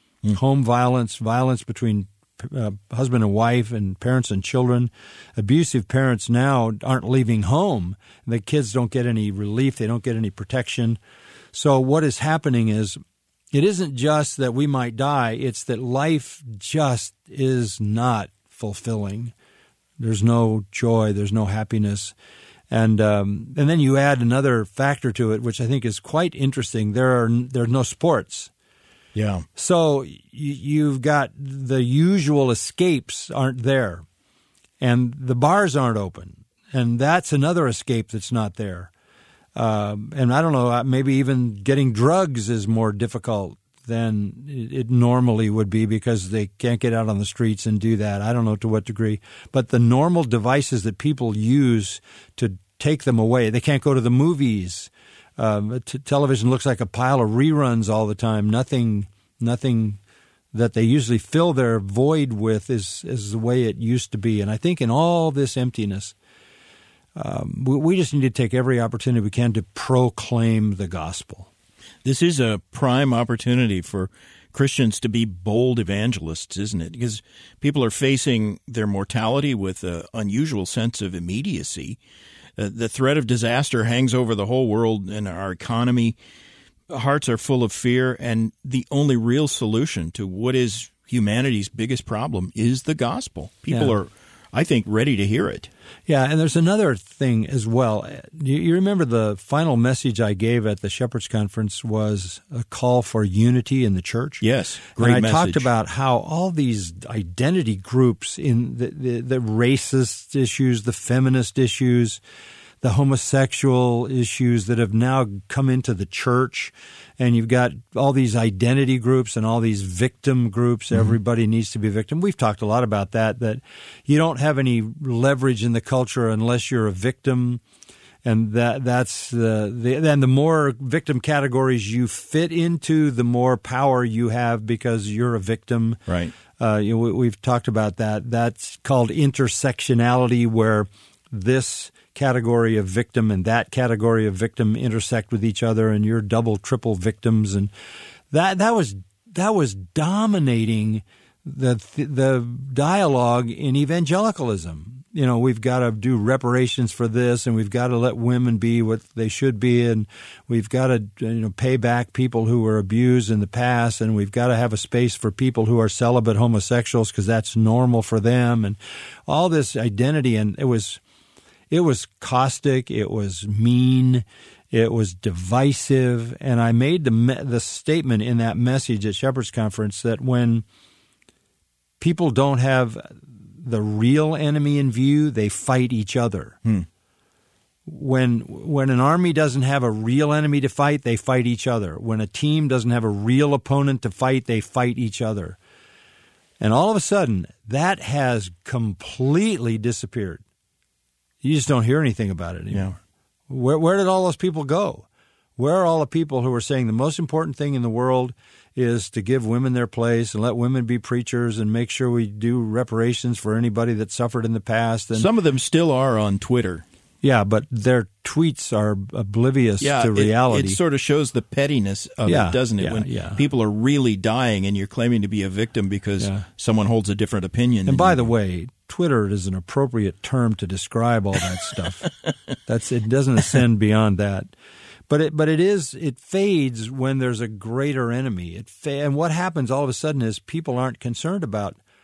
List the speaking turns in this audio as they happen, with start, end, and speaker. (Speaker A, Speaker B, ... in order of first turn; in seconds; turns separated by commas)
Speaker A: 0.3-11.0, Speaker A: 11.5-13.0, Speaker A: 13.5-19.3, Speaker A: 20.0-22.1, Speaker A: 22.7-28.5, Speaker B: 29.1-29.4, Speaker A: 29.6-34.0, Speaker A: 34.8-38.9, Speaker A: 39.5-60.0, Speaker A: 60.5-66.1, Speaker A: 67.2-71.5, Speaker B: 72.0-82.0, Speaker B: 82.6-86.2, Speaker B: 86.9-95.7, Speaker A: 96.1-104.4, Speaker B: 104.4-105.7, Speaker A: 105.0-112.2, Speaker A: 112.8-127.6, Speaker A: 128.2-136.0, Speaker B: 136.1-136.3, Speaker A: 136.5-147.7, Speaker A: 148.3-171.0, Speaker A: 171.7-180.6, Speaker A: 182.0-186.6, Speaker A: 187.8-195.6, Speaker A: 196.6-200.4, Speaker A: 201.4-202.9, Speaker A: 203.5-205.1, Speaker A: 205.6-215.3, Speaker B: 215.1-216.8, Speaker A: 217.2-220.8, Speaker B: 219.8-228.3, Speaker A: 222.2-223.4, Speaker A: 226.2-226.4, Speaker A: 227.9-232.1, Speaker A: 232.6-234.5, Speaker A: 235.1-241.8